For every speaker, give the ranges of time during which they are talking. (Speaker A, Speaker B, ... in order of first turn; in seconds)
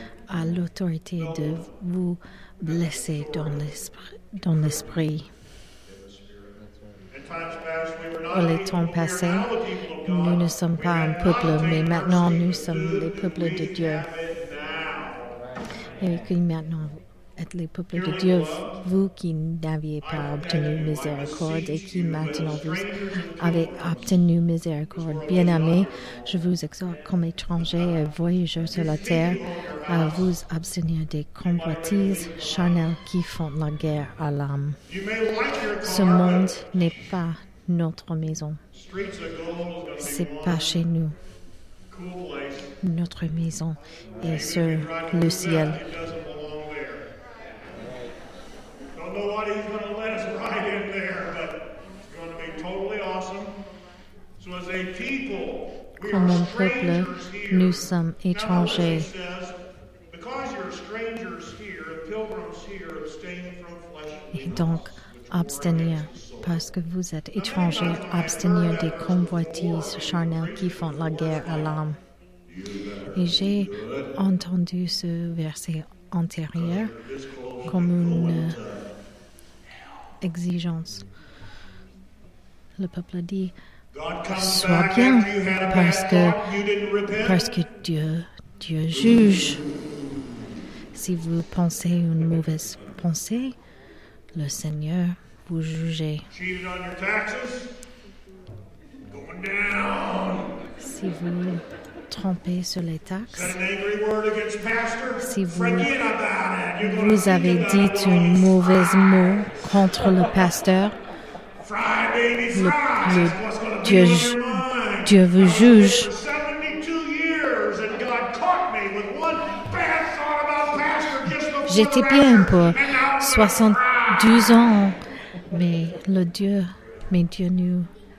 Speaker A: 0.3-5.3, 8.3-14.1, 16.0-34.8, 35.8-38.6, 40.0-41.1, 42.8-45.8, 56.0-59.1, 64.3-72.0, 73.1-76.9, 77.6-78.6, 80.2-81.0, 82.8-83.5, 84.3-86.4, 87.2-89.6, 90.9-93.5, 94.3-96.3, 100.8-103.6, 105.2-105.9, 106.8-110.9, 112.5-116.1, 121.7-127.9
Speaker B: 1.2-1.6, 2.6-3.8, 4.5-5.0, 5.8-6.6, 7.1-15.3, 17.9-18.8, 20.0-24.2, 24.9-26.3, 28.7-30.3, 31.4-32.9, 34.9-37.1, 38.7-40.8, 41.9-42.7, 44.2-47.0, 49.0-53.6, 54.4-59.5, 60.1-66.6, 67.3-71.8, 72.5-74.2, 76.5-78.9, 83.9-87.5, 96.3-97.7, 99.1-100.5, 103.3-110.5, 111.6-124.7